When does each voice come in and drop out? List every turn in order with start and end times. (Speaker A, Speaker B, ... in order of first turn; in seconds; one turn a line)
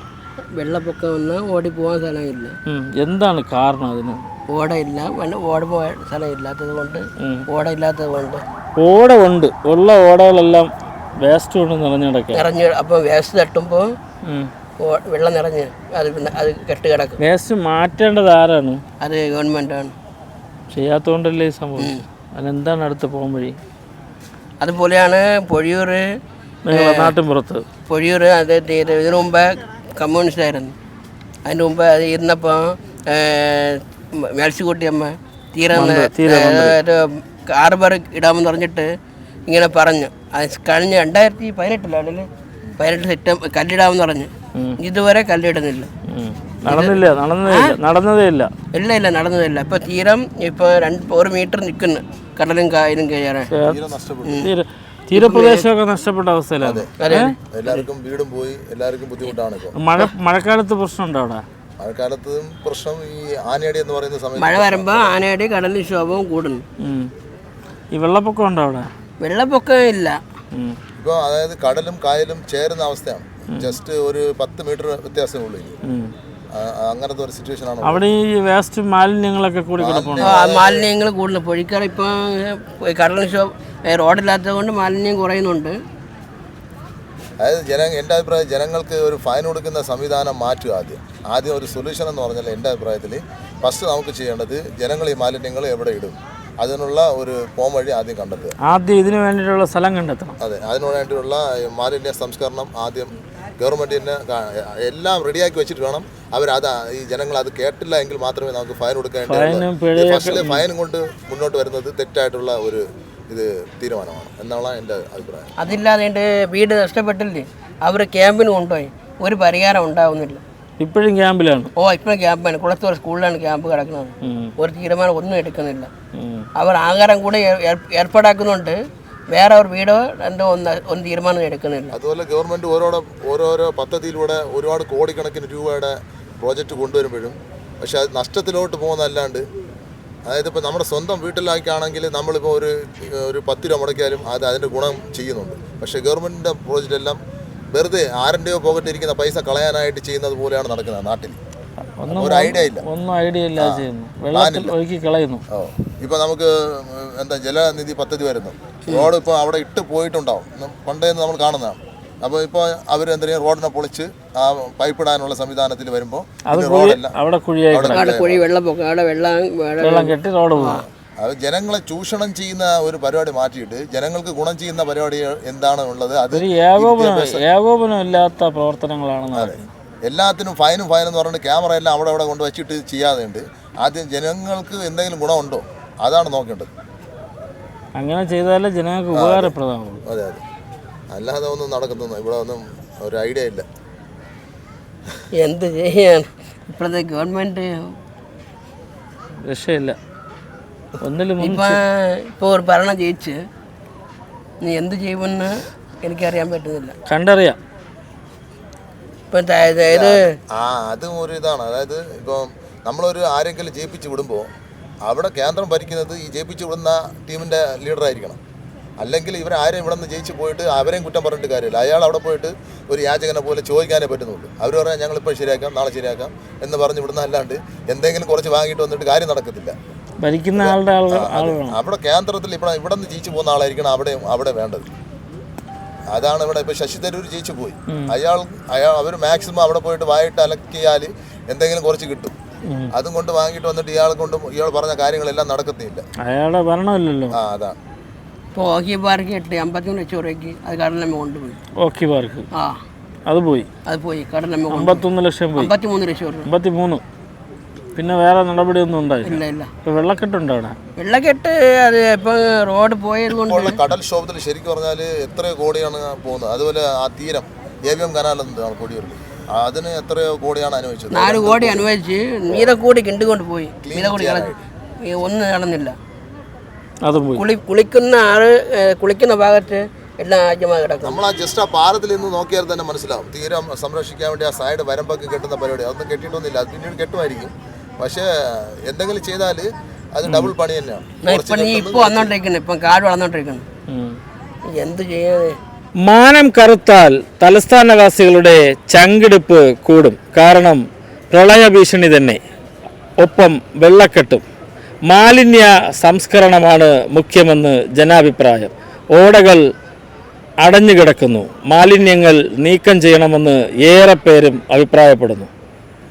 Speaker A: 0.6-2.5
Speaker B: 2.7-4.2
Speaker A: 4.5-8.4
Speaker B: 7.2-7.5
Speaker B: 8.8-10.7
Speaker B: 11.2-12.4
Speaker A: 12.3-13.9
Speaker B: 14.2-14.5
Speaker A: 14.8-17.2
Speaker B: 17.2-18.8
Speaker A: 19.0-19.9
Speaker B: 20.7-23.6
Speaker A: 21.8-22.0
Speaker A: 24.6-26.1
Speaker B: 26.6-27.6
Speaker A: 26.7-27.1
Speaker A: 27.9-30.7
Speaker A: 31.4-38.9
Speaker B: 35.7-36.8
Speaker A: 39.5-45.9
Speaker B: 46.1-48.5
Speaker A: 46.6-47.8
Speaker A: 48.7-53.5
Speaker B: 53.5-53.8
Speaker C: 53.6-54.4
Speaker B: 54.4-57.3
Speaker A: 55.1-55.6
Speaker C: 56.6-56.9
Speaker A: 57.0-57.9
Speaker C: 57.5-59.7
Speaker B: 59.7-61.4
Speaker C: 61.8-65.1
Speaker A: 64.4-66.6
Speaker B: 66.8-67.1
Speaker B: 67.9-68.9
Speaker A: 69.2-70.2
Speaker C: 71.0-75.8
Speaker B: 73.5-73.8
Speaker B: 75.8-76.1
Speaker C: 76.5-78.0
Speaker B: 77.8-80.4
Speaker C: 79.8-80.8
Speaker A: 80.2-85.8
Speaker C: 87.4-98.5
Speaker B: 98.6-100.3
Speaker C: 100.4-115.5
Speaker B: 109.2-110.6
Speaker A: 115.6-120.4
Speaker B: 120.8-121.7
Speaker A: 121.8-125.9
Speaker B: 124.2-124.5
Speaker B: 126.1-126.5
Speaker A: 126.5-128.8
Speaker A: 129.3-131.9
Speaker C: 131.9-139.4
Speaker C: 140.3-147.2
Speaker C: 147.7-151.4
Speaker B: 152.0-155.4
Speaker C: 152.1-152.8
Speaker C: 153.6-154.7
Speaker C: 155.5-167.1
Speaker B: 166.4-168.1
Speaker C: 167.7-168.4
Speaker A: 167.9-170.8
Speaker B: 169.8-170.8
Speaker C: 171.2-177.4
Speaker B: 176.3-179.7
Speaker C: 179.3-186.7
Speaker B: 188.0-190.0
Speaker C: 189.1-189.5
Speaker C: 190.1-190.4
Speaker C: 191.1-193.6
Speaker A: 195.3-197.9
Speaker B: 199.4-200.0
Speaker B: 201.0-201.8
Speaker A: 201.4-203.4
Speaker A: 204.6-206.9
Speaker B: 207.1-207.6
Speaker A: 209.3-210.3
Speaker C: 209.9-214.5
Speaker C: 215.0-218.4
Speaker C: 219.0-229.7
Speaker B: 230.2-231.8
Speaker C: 230.6-234.9
Speaker C: 236.1-242.3
Speaker B: 237.9-238.1
Speaker B: 242.7-242.9
Speaker C: 242.9-246.0
Speaker B: 246.2-247.4
Speaker C: 247.3-247.8
Speaker A: 248.6-251.6
Speaker B: 251.8-252.5
Speaker A: 252.5-252.8
Speaker B: 253.3-253.7
Speaker A: 253.9-256.5
Speaker B: 254.7-255.7
Speaker B: 256.4-257.0
Speaker B: 257.9-260.8
Speaker A: 259.2-259.7
Speaker A: 261.0-263.8
Speaker C: 263.4-271.9
Speaker A: 271.1-274.5
Speaker C: 273.8-274.6
Speaker A: 275.0-275.9
Speaker B: 277.0-277.4
Speaker A: 277.4-281.2
Speaker C: 281.0-288.3
Speaker C: 288.9-292.3
Speaker B: 290.3-290.5
Speaker A: 291.2-293.6
Speaker B: 293.9-294.2
Speaker A: 294.7-295.6
Speaker B: 296.0-302.4
Speaker B: 303.2-304.4
Speaker B: 305.1-309.6
Speaker B: 310.6-315.5